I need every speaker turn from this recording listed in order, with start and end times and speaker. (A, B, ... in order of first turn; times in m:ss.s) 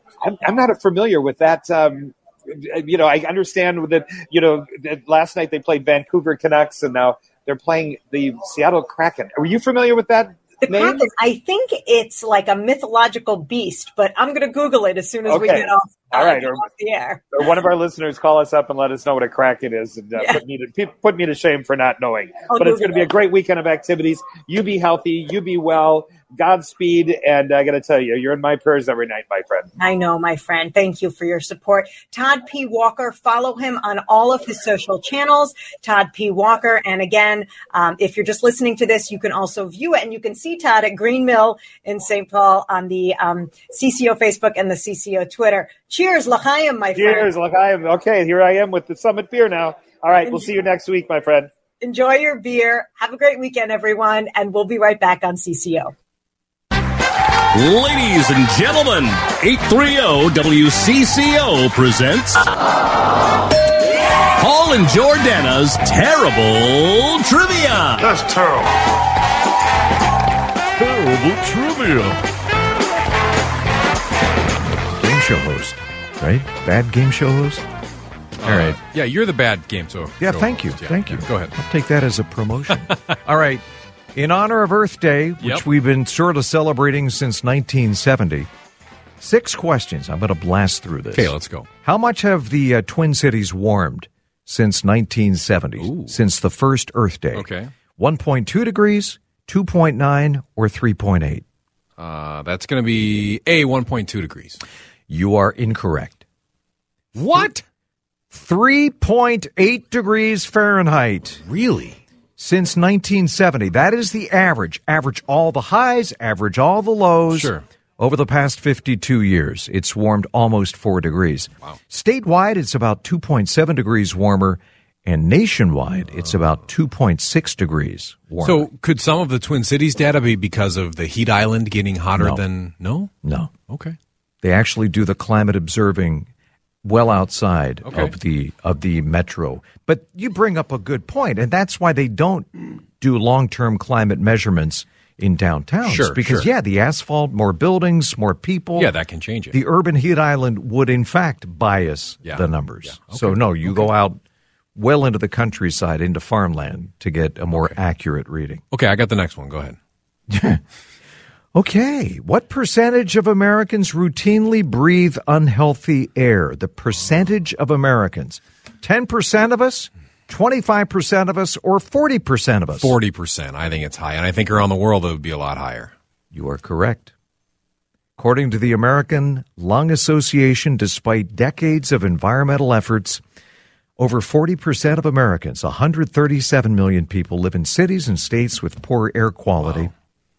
0:00.2-0:11.0 A
0:10.6-0:17.3 B
0:15.3-0:16.6 A
0:17.3-0:29.7 A
0:22.5-0:23.1 B
0:29.8-0:47.3 B
0:46.9-0:51.5 A
0:51.8-0:55.9 B
0:57.5-1:02.4 C
1:04.4-1:08.7 C
1:10.8-1:12.1 D
1:14.7-1:17.6 D
1:18.4-1:21.5 E
1:18.4-1:18.8 D
1:20.2-1:23.6 D
1:22.7-1:23.1 E
1:24.1-1:28.5 D
1:29.2-1:41.4 D
1:31.1-1:31.7 E
1:35.8-1:36.2 E
1:37.3-1:37.7 E
1:42.0-1:44.6 E
1:45.1-1:46.2 D
1:47.1-1:47.6 E
1:47.3-1:47.5 D
1:48.3-1:51.4 D
1:51.4-1:52.0 E
1:52.4-2:08.7 D
1:57.3-1:57.6 E
2:08.4-2:13.1 E
2:12.2-2:12.4 D
2:13.2-2:13.5 D
2:13.7-2:14.0 E
2:14.4-2:16.3 D
2:16.8-2:22.5 D
2:17.8-2:18.1 E
2:23.0-2:28.9 D
2:25.8-2:26.5 E
2:28.8-2:29.6 E
2:29.5-2:34.2 D
2:32.2-2:33.9 E
2:34.7-2:38.6 D
2:38.7-2:39.8 E
2:40.3-2:40.6 D
2:41.5-2:52.9 D
2:52.8-2:55.9 E
2:56.3-2:57.1 D
2:58.2-3:03.2 D
3:04.0-3:09.9 D
3:09.6-3:09.9 E